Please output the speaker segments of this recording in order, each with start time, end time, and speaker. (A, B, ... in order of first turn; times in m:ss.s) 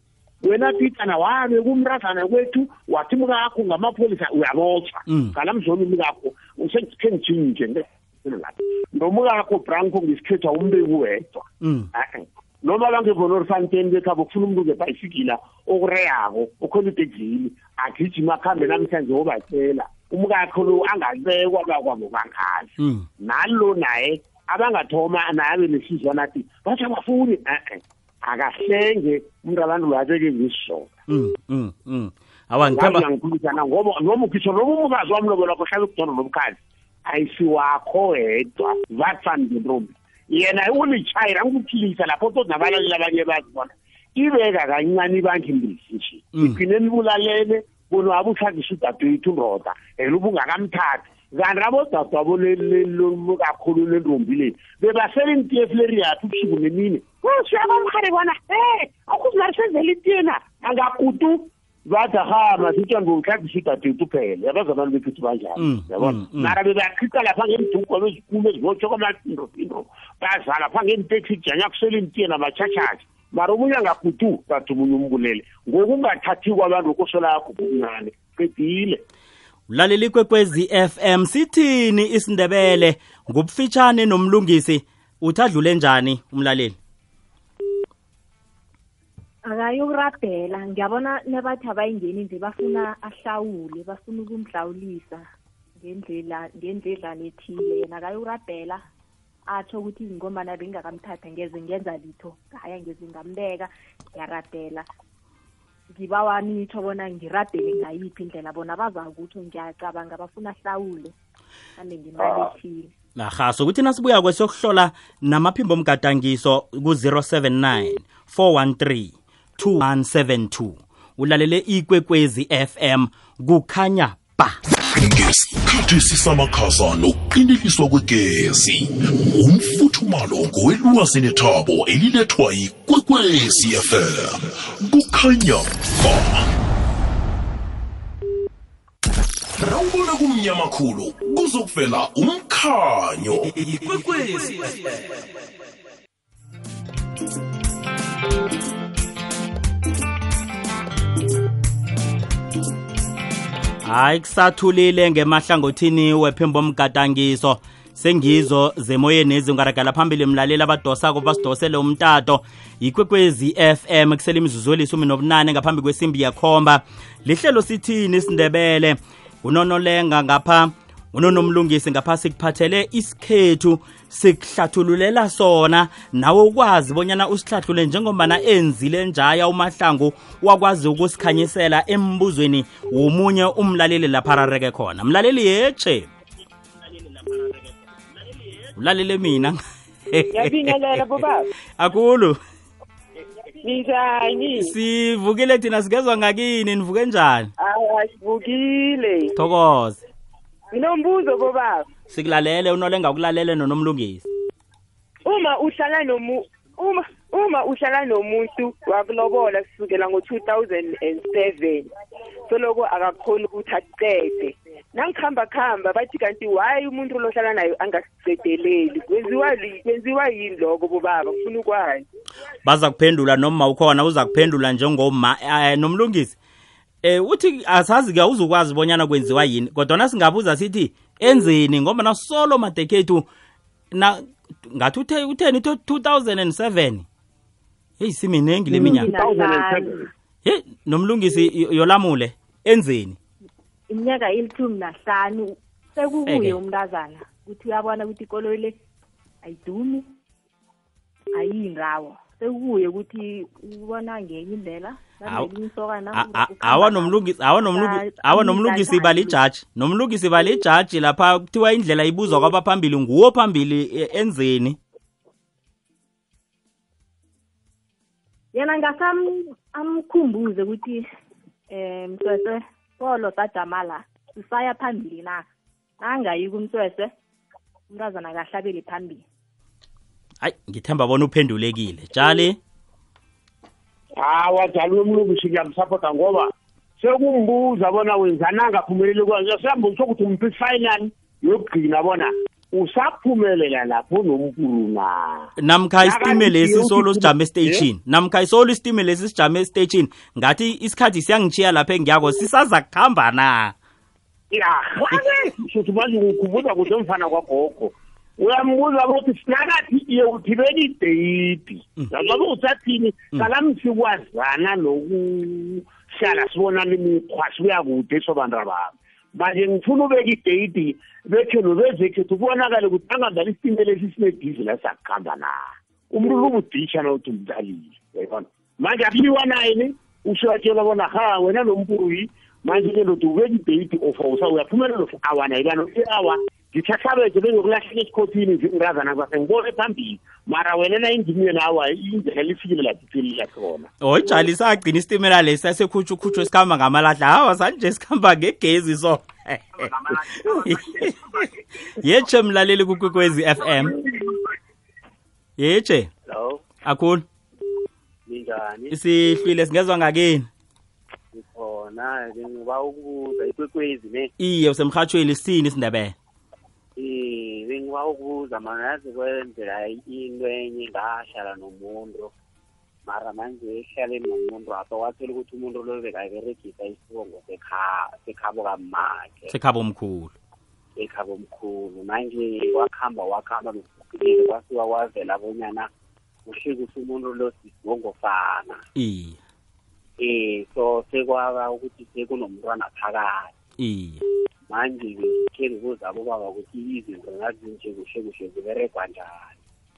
0:00.4-0:30.9 A
0:05.1-0:05.4 B
0:11.6-0:11.9 B
0:22.8-0:23.1 B
0:31.1-0:33.0 B
0:32.7-1:19.0 A
1:05.6-1:06.6 B
1:19.7-1:26.8 B
1:29.5-1:35.3 C
1:35.8-1:38.8 C
1:39.5-1:44.9 C
1:45.9-1:51.1 C
1:51.8-1:52.9 C
1:52.2-1:52.5 A
1:53.2-2:04.6 B
2:04.9-2:16.5 D
2:19.6-2:23.6 D
2:23.6-2:24.7 B
2:33.8-3:06.1 B
3:08.8-3:11.1 B
3:10.3-3:11.5 E
3:11.8-3:12.4 B
3:13.6-3:14.7 E
3:14.6-3:17.5 B
3:17.6-3:19.3 E
3:19.4-3:20.0 B
3:20.7-3:21.9 E
3:22.1-3:24.3 B
3:25.3-3:31.9 E
3:32.5-3:42.1 E
3:42.6-3:46.4 B
3:47.0-3:53.3 B
3:53.9-3:57.1 B
3:58.0-3:59.1 B
3:58.7-4:00.1 A
3:58.8-3:59.9 C
4:00.4-4:03.2 B
4:03.9-4:08.7 C
4:06.3-4:06.6 B
4:09.4-4:10.0 C
4:11.4-4:19.4 C
4:16.1-4:24.8 B
4:28.5-4:31.0 C
4:31.7-4:35.4 C
4:36.0-4:37.1 C
4:37.9-4:39.2 C
4:40.4-4:42.6 B
4:44.2-4:55.5 A
4:55.6-5:03.7 B
4:56.0-4:57.8 A
5:04.5-5:43.9 A
5:44.0-5:54.0 B
5:50.4-5:50.8 A
5:54.0-5:54.3 A
5:55.6-5:56.1 B
5:56.3-5:56.7 F
5:56.8-5:57.2 B
5:58.3-5:59.0 F
5:58.9-6:00.5 B
6:01.3-6:04.3 F
6:04.4-6:06.2 B
6:07.0-6:12.3 F
6:13.1-6:19.5 F
6:19.5-6:20.3 B
6:21.0-6:25.9 F
6:26.5-6:28.8 F
6:29.0-6:29.4 B
6:30.2-6:33.5 F
6:33.8-6:34.2 B
6:34.7-6:39.6 F